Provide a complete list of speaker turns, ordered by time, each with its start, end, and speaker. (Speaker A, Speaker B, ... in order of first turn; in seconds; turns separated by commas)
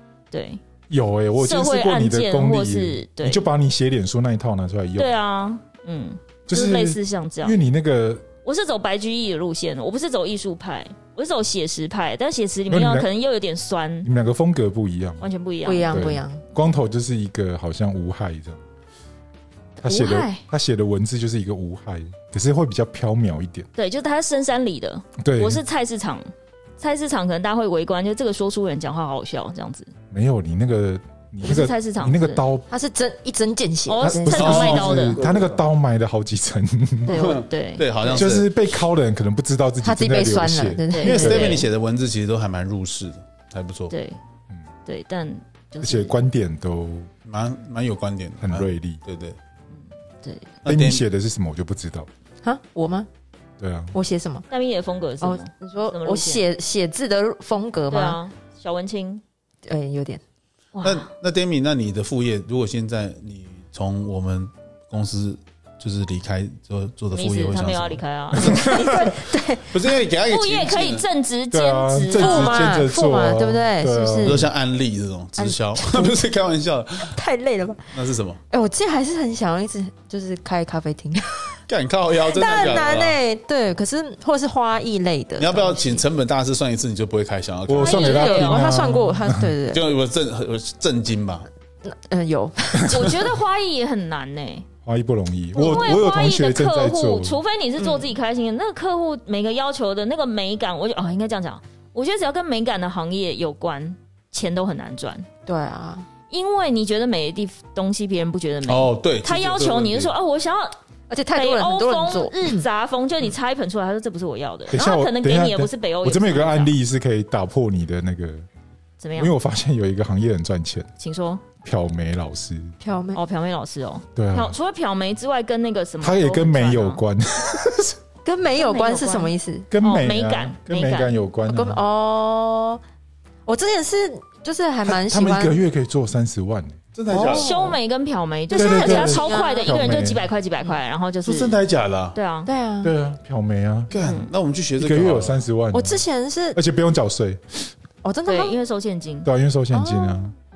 Speaker A: 0.3-0.6, Speaker B: 0.9-5.1, Speaker A: 1.4-3.4, Speaker A: 5.0-7.6, Speaker B: 6.5-8.2, Speaker A: 8.4-14.1, Speaker B: 12.7-13.1, Speaker B: 14.0-15.2, Speaker A: 15.2-16.1, Speaker C: 15.6-16.4, Speaker B: 15.9-18.6, Speaker B: 19.8-23.7, Speaker A: 19.8-20.4, Speaker A: 23.8-29.9, Speaker B: 25.2-25.6, Speaker B: 30.1-32.7, Speaker A: 31.4-32.4, Speaker C: 32.7-34.7, Speaker A: 33.9-35.2, Speaker B: 34.0-37.2, Speaker D: 34.3-35.6, Speaker A: 37.1-38.2, Speaker D: 37.1-38.5, Speaker B: 38.1-41.4, Speaker C: 39.8-41.6, Speaker A: 40.9-41.7, Speaker D: 41.0-43.9, Speaker A: 43.9-44.2, Speaker A: 44.8-46.1, Speaker B: 45.8-47.1, Speaker D: 47.2-49.4, Speaker B: 48.4-49.0, Speaker A: 50.2-50.5, Speaker D: 50.6-51.0, Speaker B: 50.6-52.1, Speaker C: 52.4-53.1, Speaker B: 53.6-53.9, Speaker C: 53.9-54.4, Speaker A: 54.5-56.4, Speaker C: 55.2-58.2, Speaker A: 57.9-59.2, Speaker C: 59.6-60.2, Speaker A: 60.7-61.1, Speaker D: 60.8-69.1, Speaker A: 67.1-68.9, Speaker C: 68.5-69.8, Speaker B: 68.5-68.9, Speaker D: 69.7-71.0, Speaker A: 70.3-72.7, Speaker B: 71.5-74.5, Speaker C: 72.2-74.5, Speaker D: 74.2-77.2, Speaker C: 75.4-76.2, Speaker C: 77.1-77.8, Speaker D: 77.9-78.4, Speaker C: 78.5-81.6, Speaker D: 81.7-83.2, Speaker C: 82.2-86.0, Speaker D: 85.4-88.1, Speaker B: 87.7-89.5, Speaker C: 87.8-89.8, Speaker A: 87.8-88.8, Speaker D: 89.7-91.5, Speaker C: 91.8-93.3, Speaker A: 92.9-94.7, Speaker B: 94.8-97.4, Speaker A: 95.5-105.2, Speaker C: 95.6-96.0, Speaker C: 97.8-98.1, Speaker C: 105.5-106.1, Speaker A: 106.3-110.8, Speaker D: 108.7-110.1, Speaker C: 111.1-112.6, Speaker A: 111.3-116.8, Speaker B: 114.7-118.5, Speaker A: 119.0-119.3, Speaker B: 119.2-120.9, Speaker A: 121.0-121.4, Speaker B: 121.6-122.7, Speaker C: 122.8-123.2, Speaker A: 123.1-127.0, Speaker B: 124.2-124.5, Speaker B: 126.0-128.0, Speaker C: 128.2-129.7, Speaker A: 128.6-131.1, Speaker B: 129.7-131.8, Speaker C: 131.5-132.8, Speaker C: 133.4-135.6, Speaker B: 134.8-136.8, Speaker D: 136.9-137.5, Speaker C: 137.1-137.8, Speaker A: 137.2-141.6, Speaker C: 138.5-140.0, Speaker B: 138.5-140.2, Speaker D: 141.2-142.2, Speaker A: 142.1-142.5, Speaker C: 142.4-142.9, Speaker B: 142.8-143.9, Speaker D: 143.9-145.4, Speaker A: 144.0-144.3, Speaker B: 144.8-146.0, Speaker C: 145.7-146.6, Speaker B: 146.5-147.7, Speaker C: 148.0-148.6, Speaker A: 148.2-149.3, Speaker B: 149.2-150.3, Speaker C: 149.7-150.3